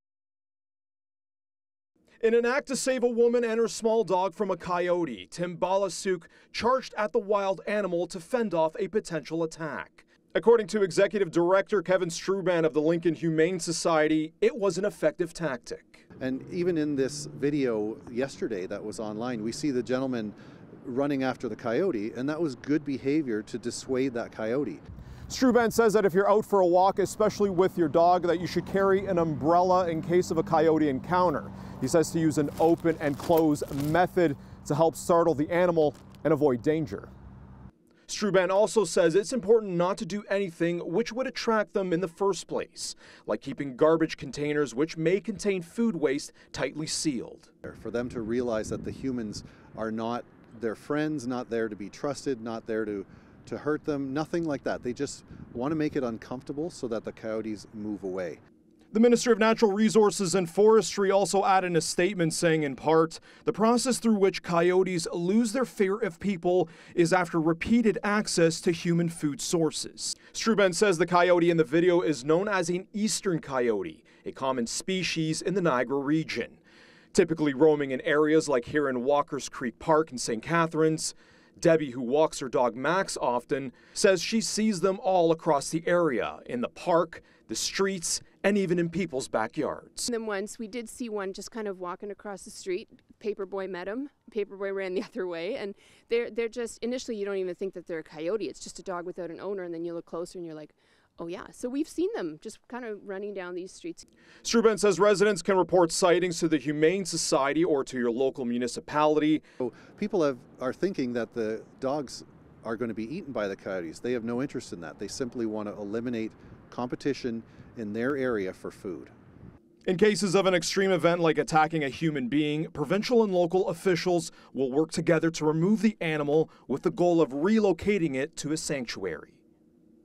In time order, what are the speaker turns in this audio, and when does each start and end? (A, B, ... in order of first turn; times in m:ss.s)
0:02.2-0:16.0 A
0:16.2-0:24.8 B
0:25.3-0:37.1 A
0:38.1-0:47.5 A
0:47.6-0:58.4 B
0:58.9-1:16.6 A
1:17.1-1:30.0 A
1:30.1-1:44.0 C
1:44.4-1:49.4 A
1:49.6-1:59.1 B
1:59.8-2:09.4 A